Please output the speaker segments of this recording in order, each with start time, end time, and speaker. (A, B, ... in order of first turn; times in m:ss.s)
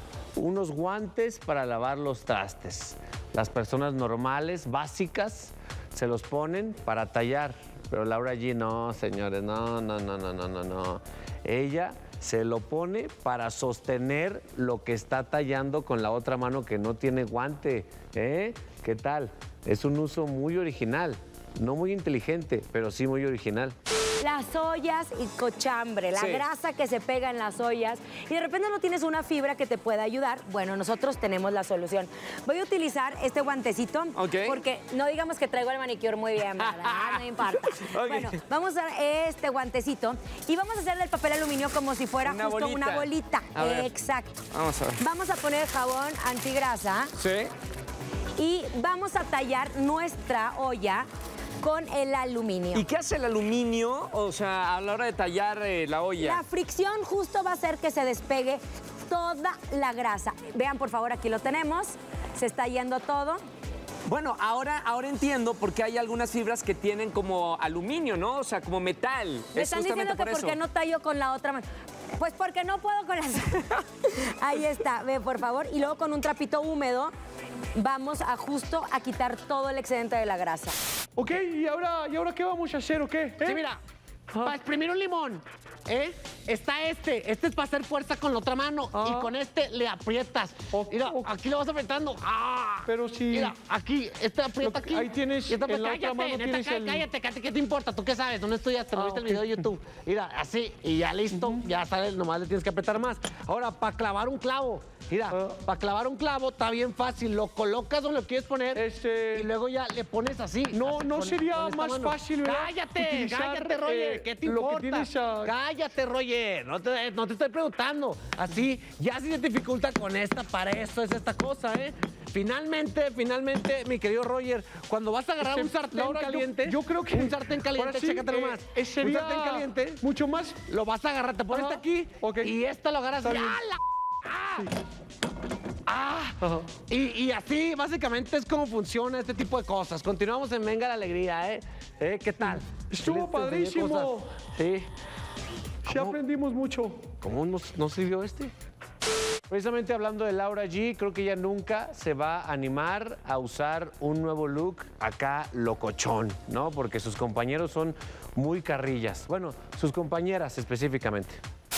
0:00.4-0:23.8 A
0:24.2-0:44.5 B
0:26.1-0:26.5 C
0:34.2-0:34.6 C
0:36.6-0:38.4 C
0:42.2-0:44.0 C
0:44.5-0:45.0 C
0:45.0-0:47.1 B
0:47.2-0:47.5 C
0:48.4-0:51.1 B
0:51.6-0:52.9 B
0:52.7-0:56.4 C
0:56.2-1:03.4 B
1:04.1-1:10.6 C
1:09.5-1:11.6 B
1:12.2-1:17.1 B
1:17.8-1:20.8 B
1:21.2-1:23.7 D
1:23.4-1:23.8 A
1:24.3-1:24.6 D
1:24.4-2:10.0 A
1:28.9-1:29.3 D
1:30.7-1:31.3 D
1:32.9-1:33.6 D
1:34.5-1:37.1 D
1:38.9-1:39.6 D
1:41.3-1:41.6 D
1:45.3-1:45.6 D
1:48.7-1:49.5 D
1:50.7-1:55.5 D
2:05.4-2:10.6 D
2:10.6-2:14.7 A
2:11.5-2:12.6 D
2:13.2-2:13.7 D
2:15.9-2:24.9 A
2:16.4-2:16.7 D
2:22.8-2:24.3 D
2:25.8-2:27.0 D
2:25.9-2:26.2 A
2:27.2-2:28.5 A
2:29.5-2:41.4 A